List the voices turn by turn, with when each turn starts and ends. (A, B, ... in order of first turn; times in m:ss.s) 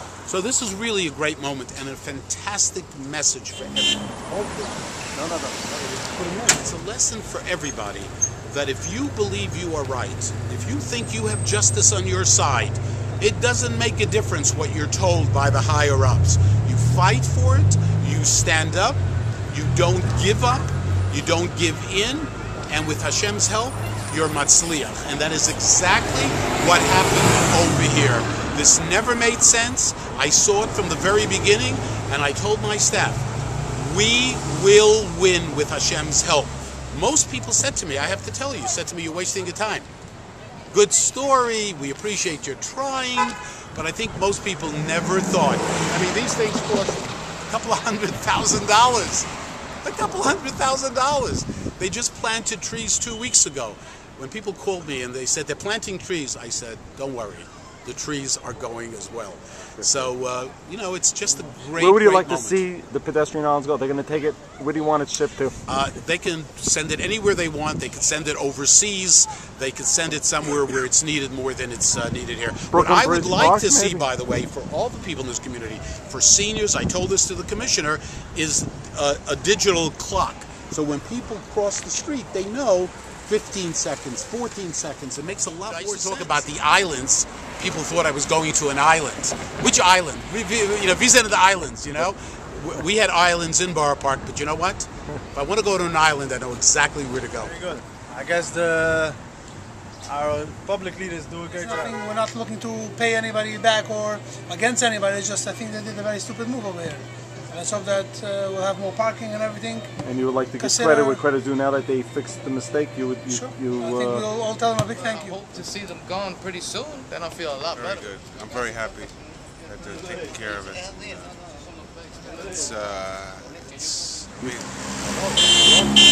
0:00.2-0:04.2 A
0:04.3-0:06.4 B
0:06.3-0:39.9 A
0:40.7-0:49.3 A
0:49.8-1:02.6 A
0:59.8-1:00.1 B
1:01.8-1:05.6 B
1:05.6-1:37.6 A
1:12.7-1:14.1 B
1:37.5-1:39.2 C
1:40.1-1:42.0 C
1:41.6-1:49.9 D
1:50.0-1:54.2 B
1:50.6-1:51.2 D
1:53.3-1:55.4 D
1:55.0-1:58.0 E
1:57.8-1:59.1 F
1:59.6-2:01.3 F
2:02.2-2:05.2 F